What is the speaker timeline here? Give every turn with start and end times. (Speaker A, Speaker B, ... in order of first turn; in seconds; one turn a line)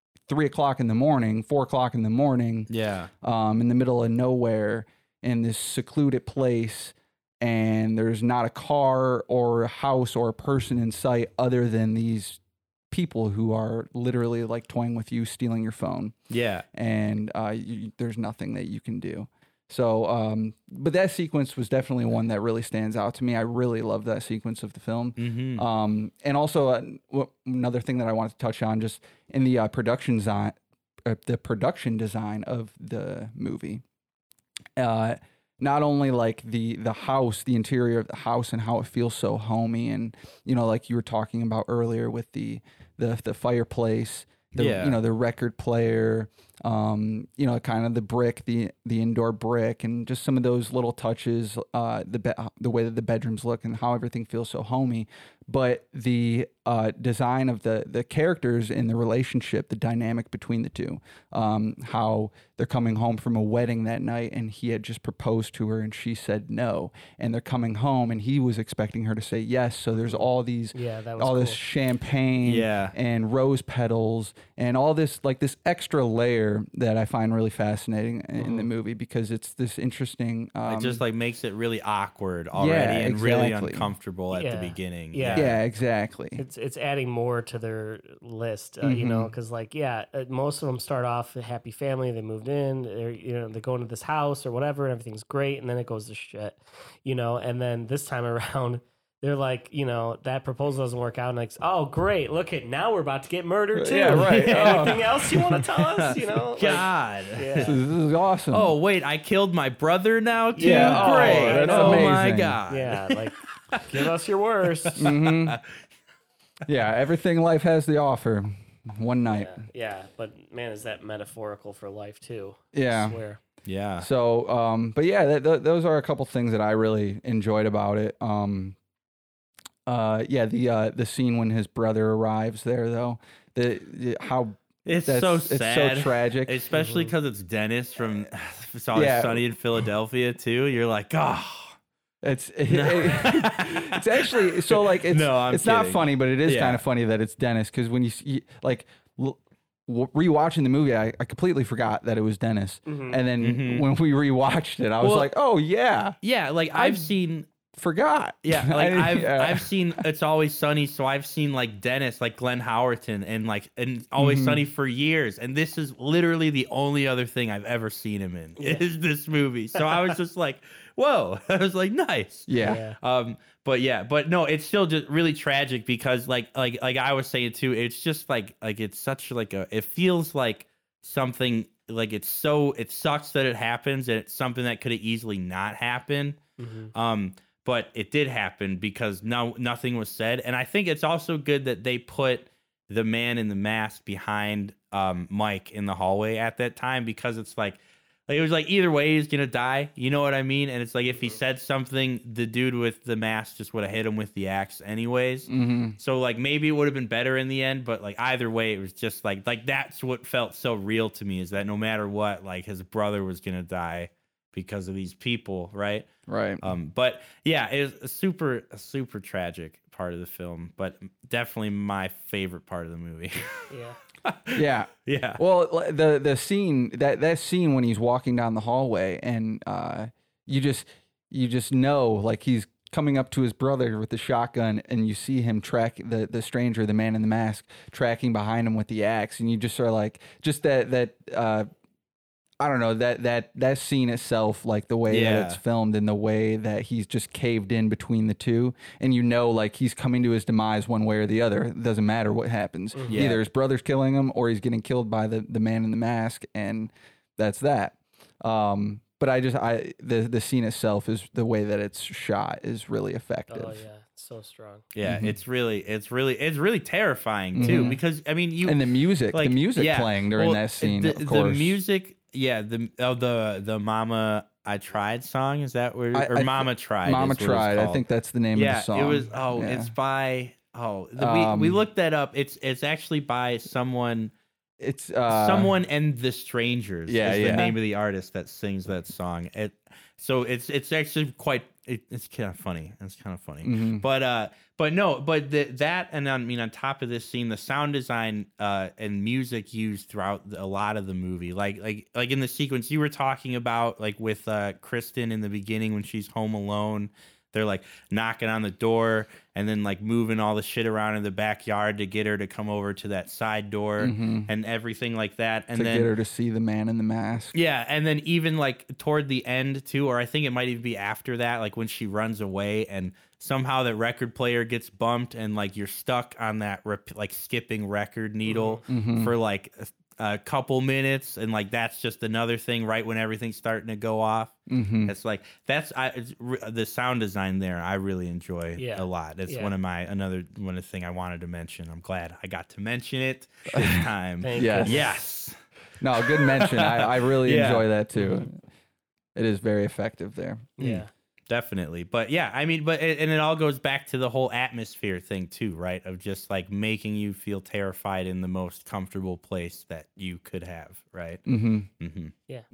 Speaker A: 0.3-2.7
Speaker B: 2.7-3.1
Speaker A: 3.2-16.1
Speaker B: 16.3-16.6
Speaker A: 16.7-33.8
Speaker B: 25.2-25.6
Speaker A: 34.8-81.0
Speaker B: 44.5-45.0
Speaker C: 70.1-71.6
Speaker B: 72.4-72.9
Speaker C: 78.4-78.7
Speaker B: 80.7-85.5
Speaker A: 82.5-83.9
Speaker C: 84.3-85.6
Speaker A: 85.3-86.4
Speaker C: 86.3-107.8
Speaker A: 88.8-89.3
Speaker A: 103.7-105.1
Speaker B: 104.1-107.7
Speaker A: 107.6-108.7
Speaker B: 108.5-114.1
Speaker C: 110.5-115.0
Speaker A: 110.6-112.6
Speaker B: 114.8-115.8
Speaker A: 115.0-115.6
Speaker A: 116.7-119.6
Speaker C: 119.3-123.4
Speaker A: 122.7-123.2
Speaker B: 123.6-124.1
Speaker A: 124.0-128.8
Speaker A: 129.8-136.6
Speaker B: 134.8-141.8
Speaker C: 136.8-137.1
Speaker A: 138.9-139.4
Speaker A: 142.2-156.2
Speaker B: 142.7-146.8
Speaker C: 152.8-153.2
Speaker B: 153.4-153.9
Speaker B: 155.0-155.3
Speaker B: 156.2-157.5
Speaker A: 156.7-157.1
Speaker A: 157.7-160.0
Speaker B: 158.4-186.4
Speaker A: 164.2-164.6
Speaker C: 168.6-168.8
Speaker C: 169.8-170.1
Speaker A: 172.5-172.8
Speaker C: 172.6-173.0
Speaker C: 186.6-186.9
Speaker B: 186.9-216.1
Speaker A: 205.5-206.0
Speaker A: 216.3-216.7
Speaker B: 216.6-223.7
Speaker C: 223.7-224.0
Speaker B: 224.2-225.4
Speaker A: 224.5-241.7
Speaker A: 242.6-263.8
Speaker B: 245.1-245.6
Speaker C: 252.9-253.2
Speaker B: 253.1-253.4
Speaker C: 263.5-264.9
Speaker B: 264.9-278.0
Speaker A: 265.1-265.4
Speaker A: 267.6-268.0
Speaker A: 268.6-271.8
Speaker A: 276.1-279.9
Speaker B: 278.5-284.3
Speaker A: 281.2-281.8
Speaker A: 284.8-285.7
Speaker B: 285.3-316.1
Speaker A: 287.1-287.8
Speaker A: 293.6-294.0
Speaker A: 314.0-314.5
Speaker A: 315.7-317.5
Speaker B: 317.5-345.6
Speaker C: 328.5-328.8
Speaker A: 328.9-329.3
Speaker A: 334.7-335.1
Speaker C: 338.8-339.7
Speaker A: 343.7-345.1
Speaker C: 344.4-345.2
Speaker A: 346.0-348.6
Speaker B: 346.1-347.9
Speaker C: 348.2-348.4
Speaker A: 349.3-351.0
Speaker C: 350.8-351.1
Speaker B: 351.5-361.4
Speaker A: 361.4-361.9
Speaker B: 362.0-362.3